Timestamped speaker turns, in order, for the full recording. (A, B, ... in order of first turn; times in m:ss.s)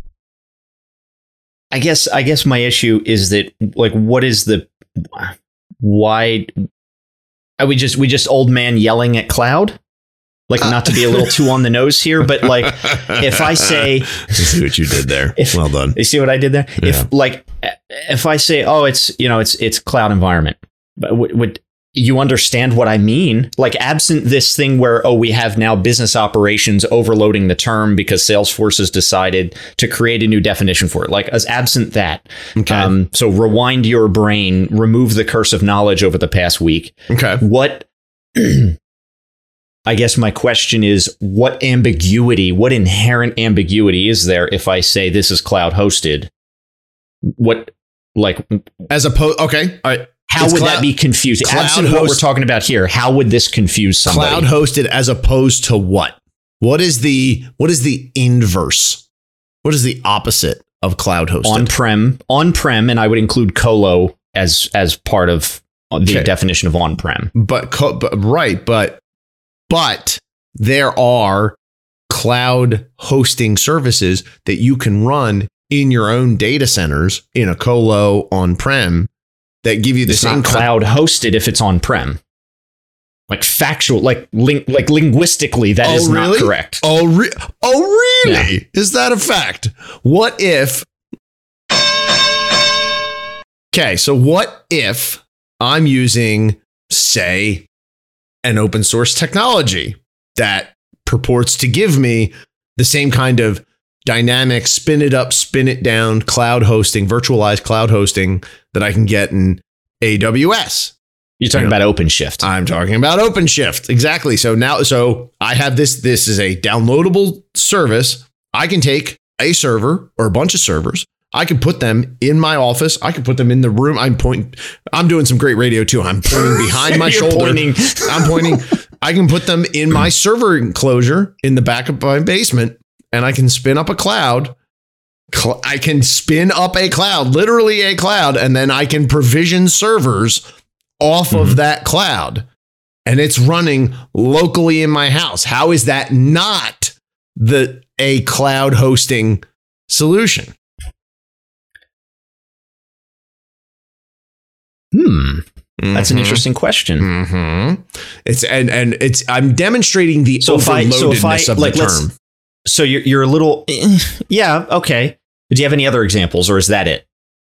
0:01.7-0:06.5 A
0:07.6-0:09.8 A
0:10.5-0:14.4 A
0:12.8-0:13.7 B
0:14.2-0:16.0 B
0:15.4-0:38.8 A
0:16.8-0:17.1 B
0:32.6-0:32.9 B
0:37.1-0:37.4 B
0:39.8-0:46.3 A
0:47.2-0:48.6 A
0:48.9-0:52.2 B
0:50.3-0:54.5 A
0:54.0-0:59.0 B
0:59.6-1:01.7 B
1:01.4-1:07.3 A
1:07.3-1:09.0 B
1:09.7-1:11.6 B
1:12.1-1:19.1 B
1:19.6-1:20.7 B
1:20.1-1:22.2 A
1:23.3-1:26.8 A
1:25.8-1:30.9 B
1:33.7-1:37.7 B
1:38.4-1:50.9 B
1:51.4-1:52.4 A
1:52.4-2:14.5 B
2:06.3-2:08.6 A
2:15.3-2:20.4 B
2:21.0-2:22.5 B
2:21.3-2:21.6 A
2:23.0-2:30.5 B
2:34.9-2:37.1 A
2:35.8-2:36.4 B
2:37.0-2:42.1 B
2:40.4-2:42.0 A
2:42.6-2:47.0 A